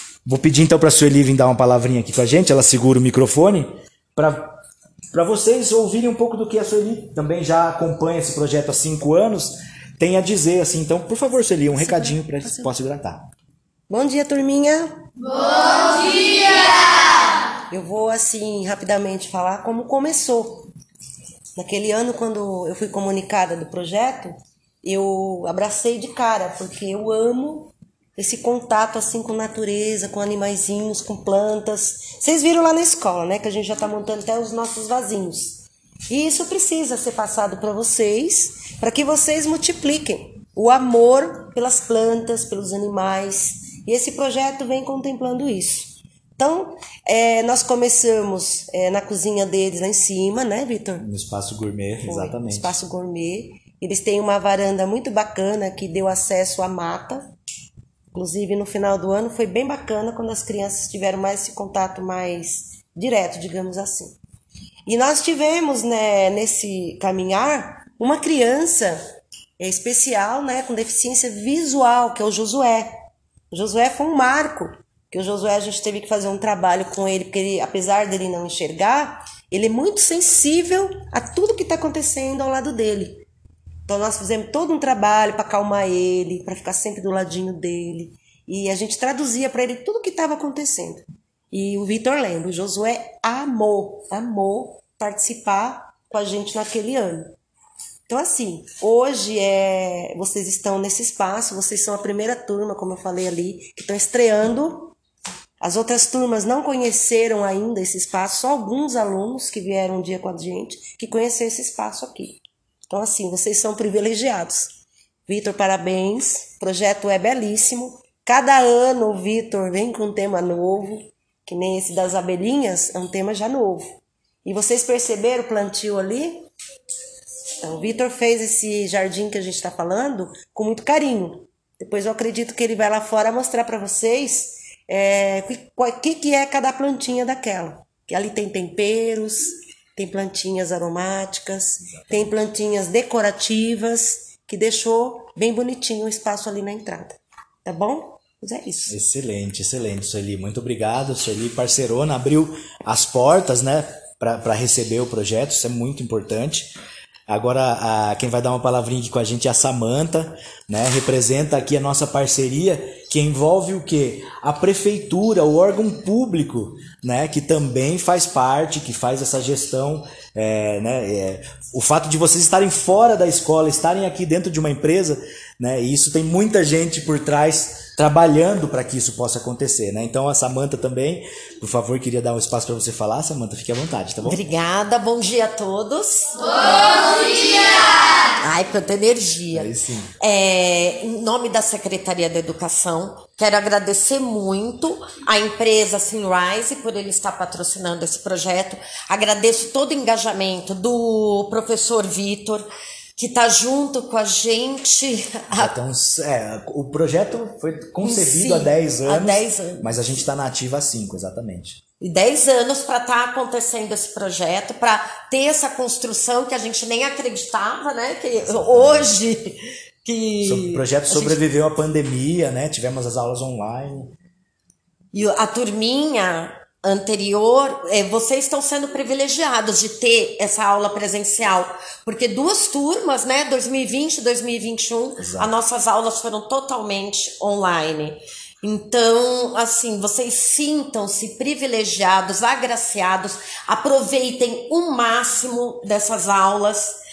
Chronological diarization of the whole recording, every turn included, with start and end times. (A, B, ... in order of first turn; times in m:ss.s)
0:00.2-0:04.6 A
0:05.1-0:13.3 A
0:12.1-0:12.6 B
0:13.9-0:15.0 B
0:17.7-0:20.7 B
0:21.6-0:51.0 B
0:51.0-0:52.8 A
0:52.0-0:57.3 B
0:58.1-1:04.2 B
1:04.9-1:09.1 B
1:09.6-1:23.2 B
1:23.9-1:37.4 B
1:38.1-1:44.9 B
1:45.6-1:54.7 B
1:55.3-2:06.5 B
2:07.6-2:28.9 B
2:28.9-2:36.8 A
2:37.3-3:04.4 A
3:04.2-3:25.7 C
3:09.5-3:10.1 A
3:25.5-3:31.8 A
3:28.0-3:29.9 C
3:32.0-3:41.4 C
3:38.4-3:39.1 A
3:40.4-3:44.1 A
3:45.1-4:07.0 C
3:55.2-3:55.5 A